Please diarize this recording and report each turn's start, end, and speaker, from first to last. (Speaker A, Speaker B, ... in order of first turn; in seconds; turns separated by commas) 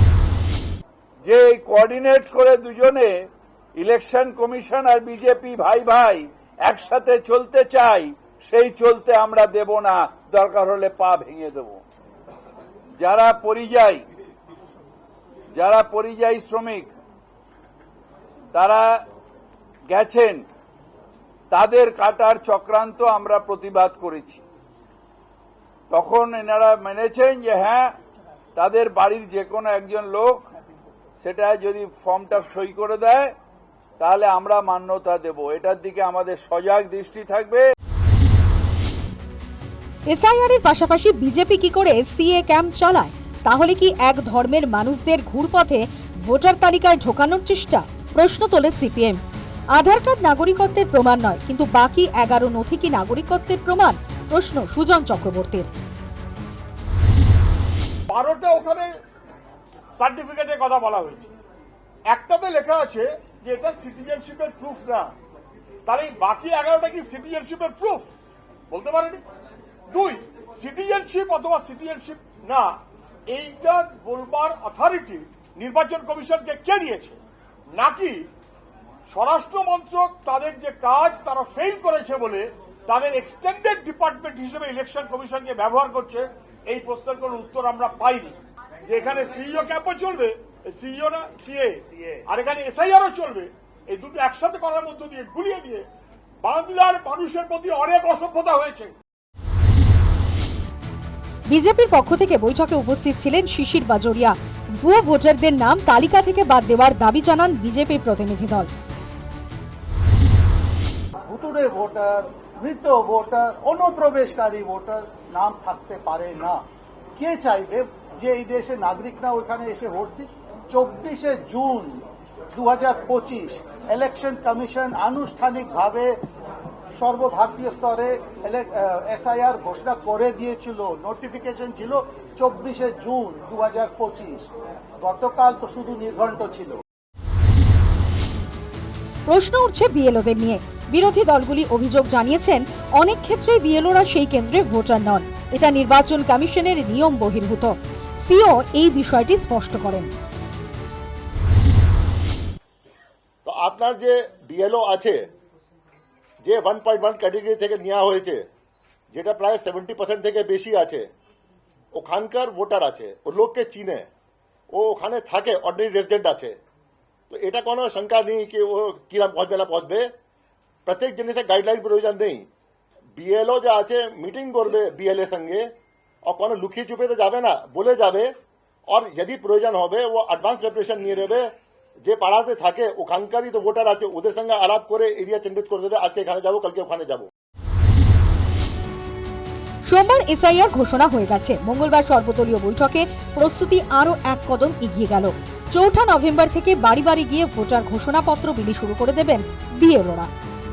Speaker A: 1.2-3.2, Speaker A: 3.7-11.8, Speaker A: 12.9-14.0, Speaker A: 15.5-16.9, Speaker A: 18.5-19.0, Speaker A: 19.9-20.4, Speaker A: 21.5-24.4, Speaker A: 25.9-27.9, Speaker A: 28.6-30.4, Speaker A: 31.2-33.3, Speaker A: 34.0-37.7, Speaker B: 40.1-49.2, Speaker B: 49.7-55.7, Speaker C: 58.1-58.9, Speaker C: 60.0-61.3, Speaker C: 62.1-65.1, Speaker C: 65.8-68.1, Speaker C: 68.7-69.2, Speaker C: 69.9-77.2, Speaker C: 77.7-78.3, Speaker C: 79.1-95.8, Speaker C: 96.4-98.9, Speaker B: 101.5-108.7, Speaker D: 111.2-116.6, Speaker D: 117.2-126.2, Speaker D: 126.9-134.5, Speaker D: 135.0-136.8, Speaker B: 139.2-150.1, Speaker E: 153.4-155.2, Speaker E: 156.4-158.4, Speaker E: 159.1-161.0, Speaker E: 161.9-164.1, Speaker E: 164.7-166.5, Speaker E: 167.3-170.1, Speaker E: 170.8-172.4, Speaker E: 173.2-175.7, Speaker E: 176.2-178.3, Speaker E: 178.9-181.5, Speaker E: 182.1-187.2, Speaker B: 189.8-200.3